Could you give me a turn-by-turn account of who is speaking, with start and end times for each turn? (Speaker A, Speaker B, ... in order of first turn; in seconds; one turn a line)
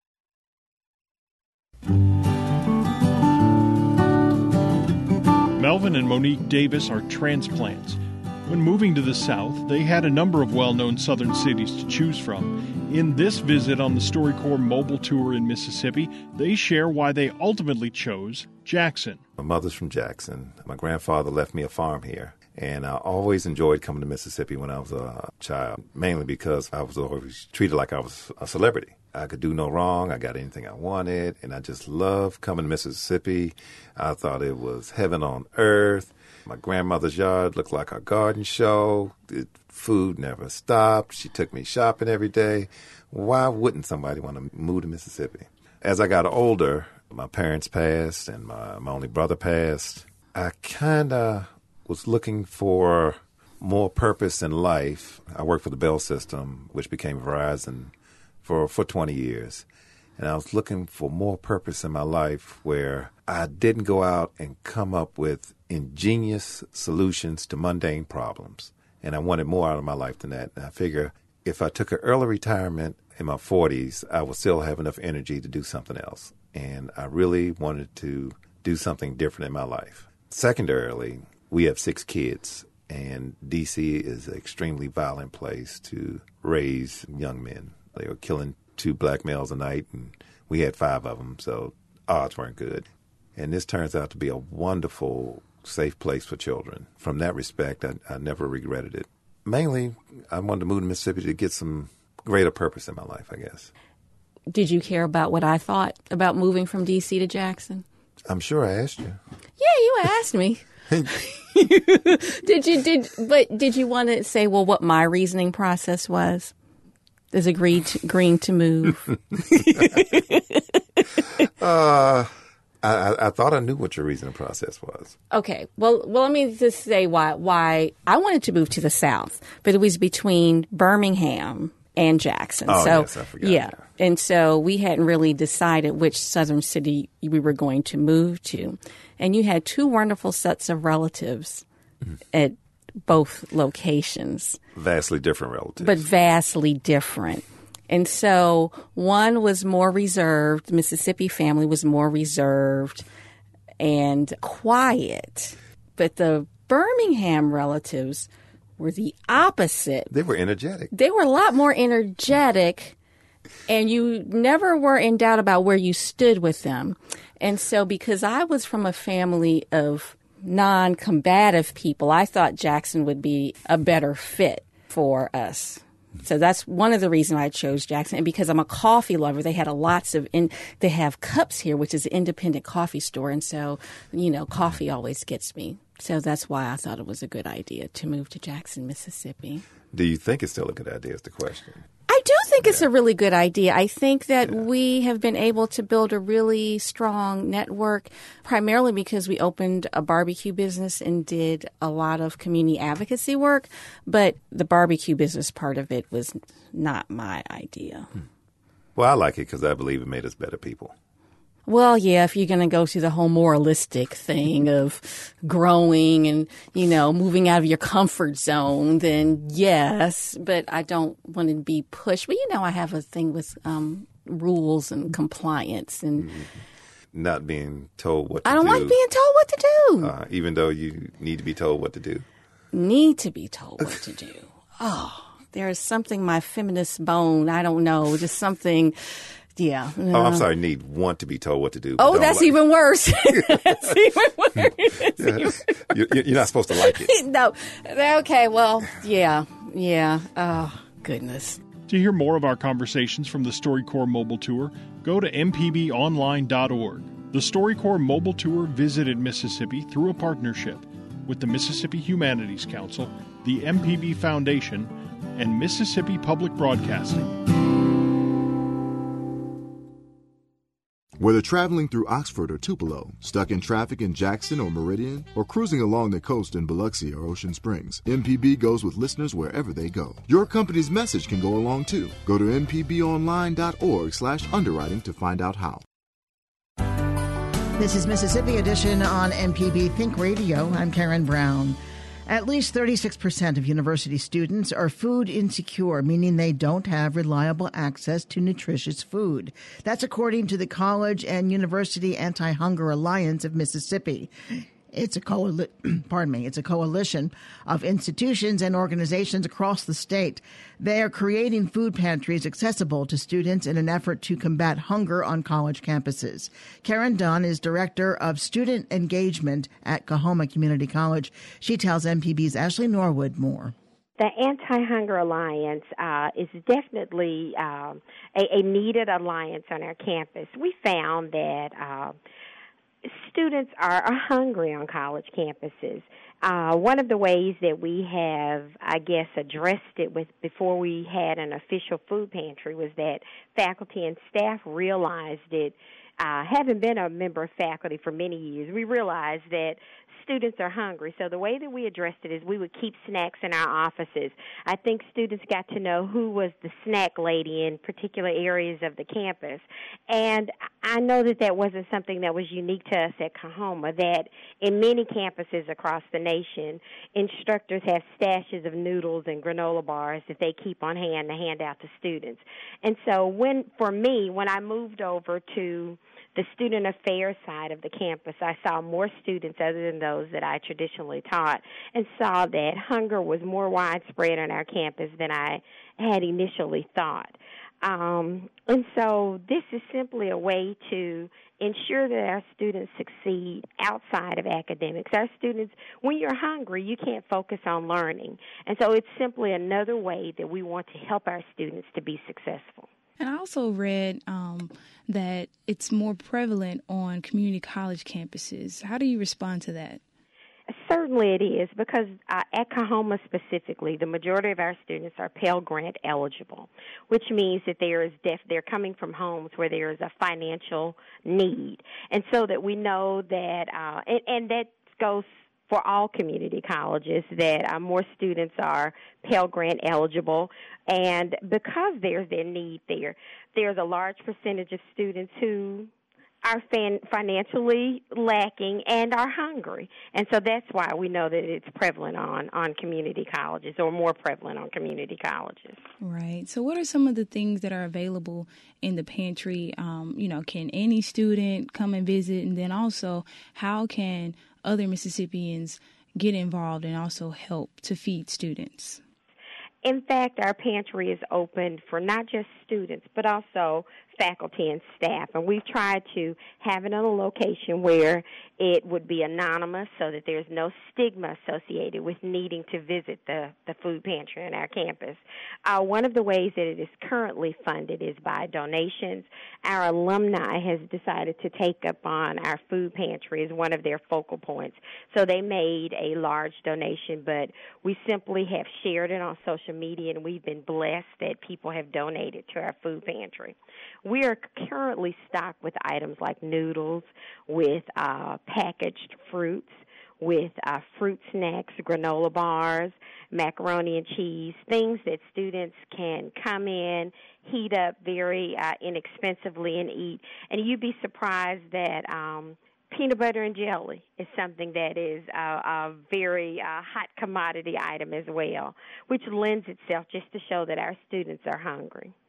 Speaker A: 5.6-19.2
Speaker B: 19.4-59.6
Speaker B: 60.2-103.7
Speaker C: 104.5-107.8
Speaker B: 108.3-109.2
Speaker C: 109.6-116.5
Speaker C: 117.3-120.6
Speaker B: 121.6-125.2
Speaker C: 125.3-141.7
Speaker B: 132.7-133.9
Speaker C: 142.3-144.6
Speaker B: 144.7-146.1
Speaker C: 145.8-153.1
Speaker C: 153.8-160.1
Speaker B: 160.1-160.9
Speaker C: 160.9-163.0
Speaker C: 163.7-189.7
Speaker B: 189.9-191.9
Speaker C: 192.1-208.1
Speaker B: 209.0-210.9
Speaker C: 211.7-226.3
Speaker B: 226.2-226.5
Speaker B: 227.1-229.0
Speaker C: 228.4-230.1
Speaker B: 230.0-232.2
Speaker C: 232.7-240.5
Speaker B: 240.1-242.7
Speaker C: 242.0-246.1
Speaker B: 243.3-243.9
Speaker B: 244.6-247.1
Speaker C: 246.7-251.6
Speaker A: 251.9-267.3
Speaker D: 271.2-285.8
Speaker E: 287.8-323.7
Speaker F: 324.2-332.2
Speaker F: 333.0-402.9
Speaker G: 403.2-410.0
Speaker F: 410.7-435.9
Speaker F: 436.4-445.8
Speaker G: 446.0-459.0
Speaker F: 459.8-522.1